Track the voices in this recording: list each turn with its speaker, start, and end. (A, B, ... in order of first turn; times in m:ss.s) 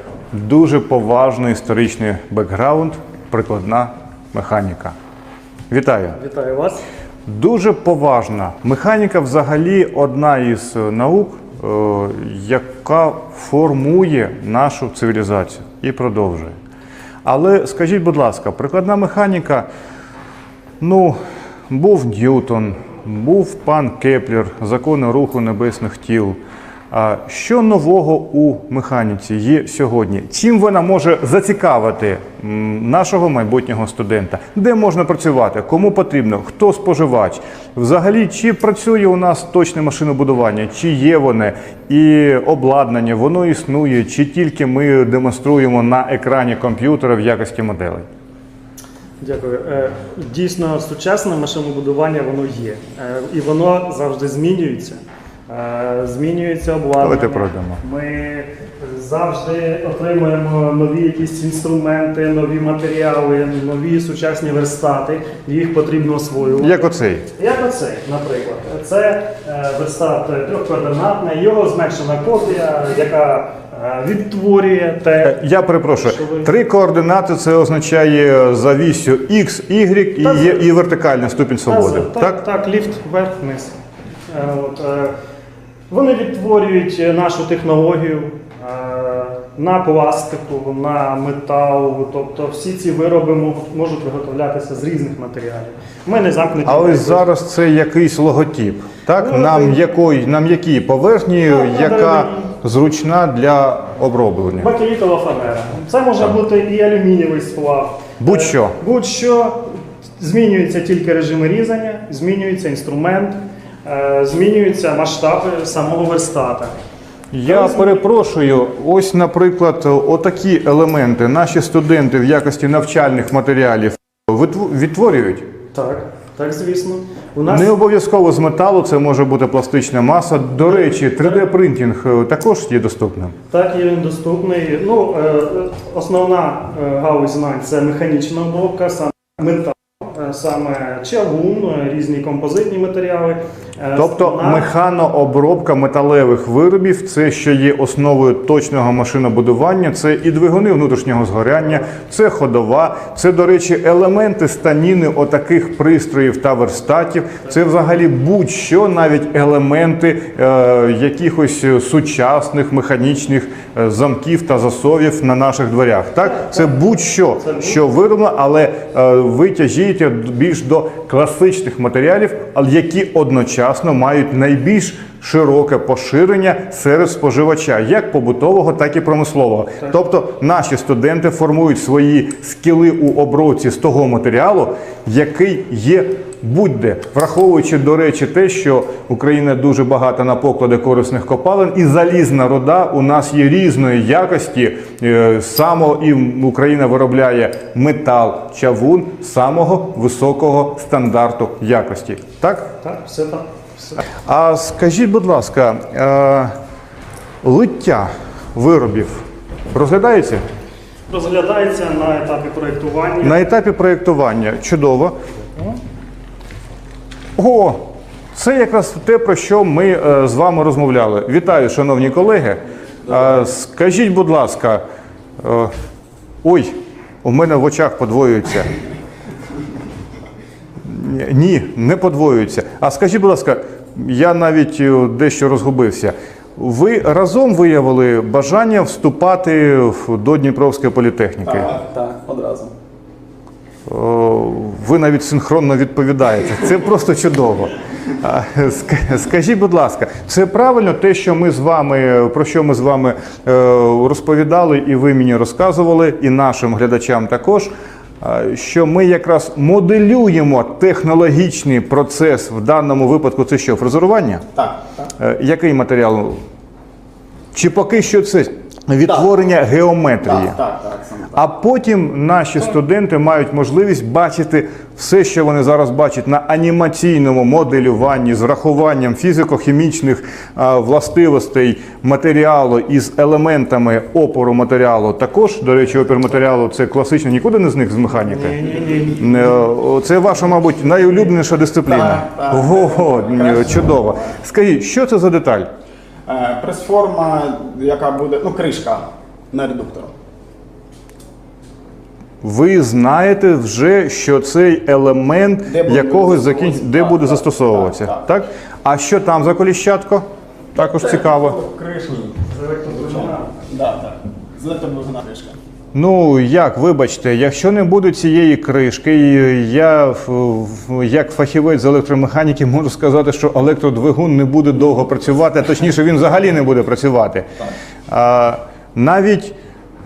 0:00.3-0:04.9 A
0:05.7-0:06.2 A
0:06.1-0:06.8 B
0:07.2-0:16.6 A
0:17.2-0:19.7 A
0:20.8-0:21.2 A
0:21.7-0:26.4 A
0:26.9-0:48.0 A
0:49.2-1:15.4 B
0:57.0-0:57.8 A
1:06.6-1:07.3 A
1:15.2-1:22.4 A
1:16.0-1:16.5 B
1:20.2-1:20.7 B
1:21.7-1:25.1 B
1:25.9-1:37.2 B
1:36.6-1:44.7 A
1:39.2-1:39.8 B
1:41.4-1:42.4 B
1:44.6-1:56.7 B
1:48.2-1:48.8 A
1:57.3-2:05.5 A
1:57.4-1:58.0 B
2:05.7-2:07.7 B
2:07.4-2:13.4 A
2:10.8-2:11.4 B
2:13.5-2:24.7 B
2:23.9-3:22.7 A
2:46.4-2:46.7 B
2:47.4-2:47.8 B
3:22.8-3:24.0 B
3:24.2-3:26.5 A
3:27.4-3:30.4 A
3:31.1-3:33.5 B
3:33.2-3:35.2 A
3:37.4-3:44.8 A
3:45.4-3:45.7 A
3:46.4-3:48.7 A
3:50.8-4:01.7 A
4:01.4-4:02.7 C
4:03.9-4:24.4 A
4:24.5-4:25.1 C
4:25.2-4:26.4 A
4:27.5-4:30.6 A
4:30.2-4:31.4 C
4:31.3-4:48.6 A
4:48.3-4:49.2 B
4:49.2-4:55.7 A
4:51.8-4:54.3 C
4:56.2-5:00.1 C
5:02.4-5:11.6 A
5:05.7-5:08.2 C
5:10.8-5:15.6 C
5:12.5-5:13.6 B
5:15.9-5:27.5 A
5:28.1-5:29.5 A